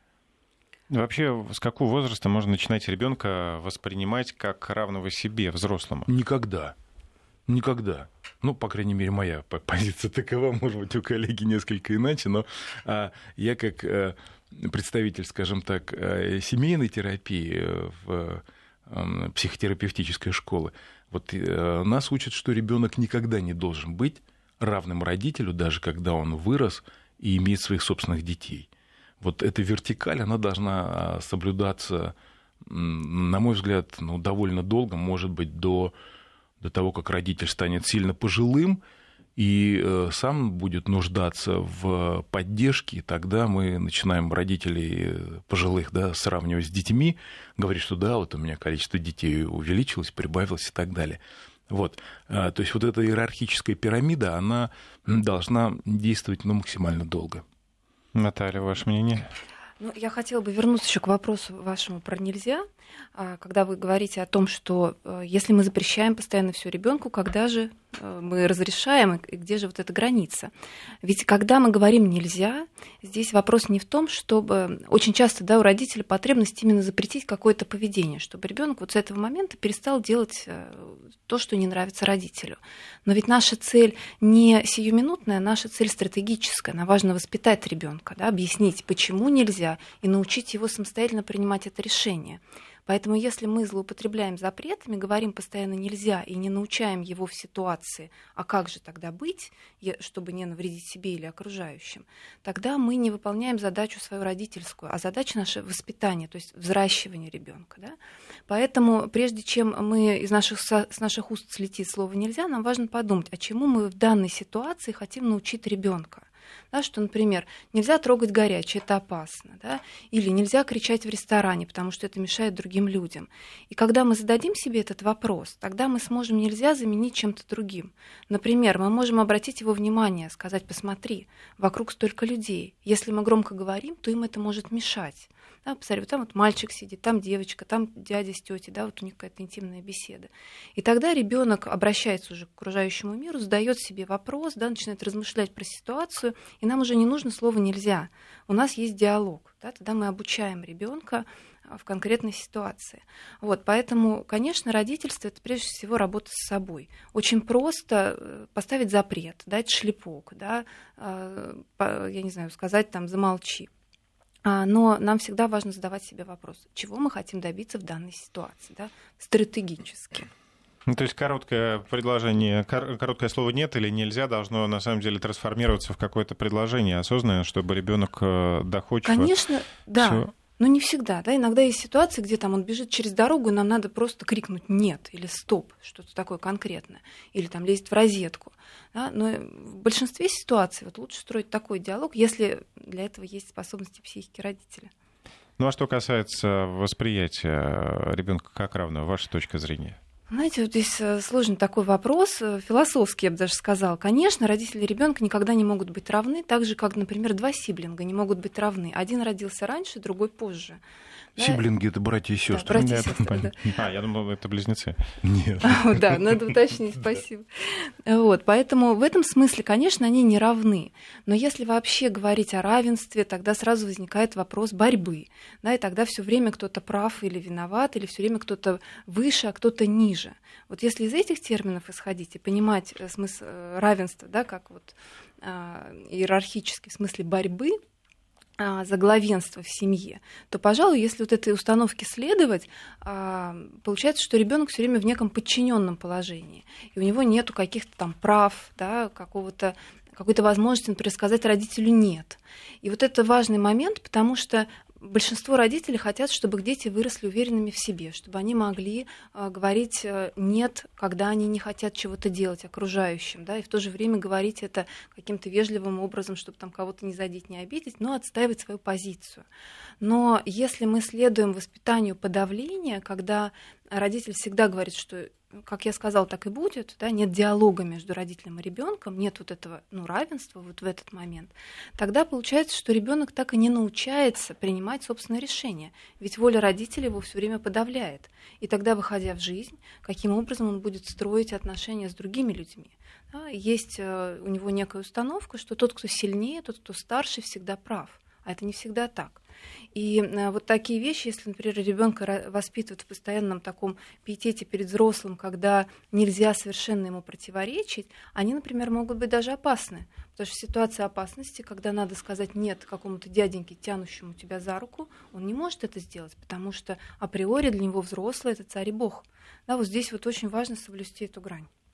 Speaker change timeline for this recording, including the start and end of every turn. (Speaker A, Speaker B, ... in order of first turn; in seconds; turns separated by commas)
Speaker A: 0.9-6.1, Speaker B: 6.1-6.7, Speaker B: 7.5-28.7, Speaker B: 29.2-35.9, Speaker B: 36.6-38.8, Speaker B: 39.4-57.4, Speaker A: 58.1-59.3, Speaker C: 59.8-70.5, Speaker C: 71.0-108.0, Speaker C: 108.5-163.7, Speaker C: 164.4-170.3, Speaker A: 170.8-179.3, Speaker C: 179.0-194.9, Speaker A: 180.0-180.2, Speaker A: 195.6-200.0, Speaker C: 200.3-210.8, Speaker C: 211.3-211.6, Speaker B: 211.4-213.3, Speaker C: 212.5-213.7, Speaker A: 212.7-215.0, Speaker B: 215.2-216.5, Speaker C: 215.6-237.8, Speaker C: 238.6-269.4, Speaker C: 270.0-299.4, Speaker C: 299.9-321.7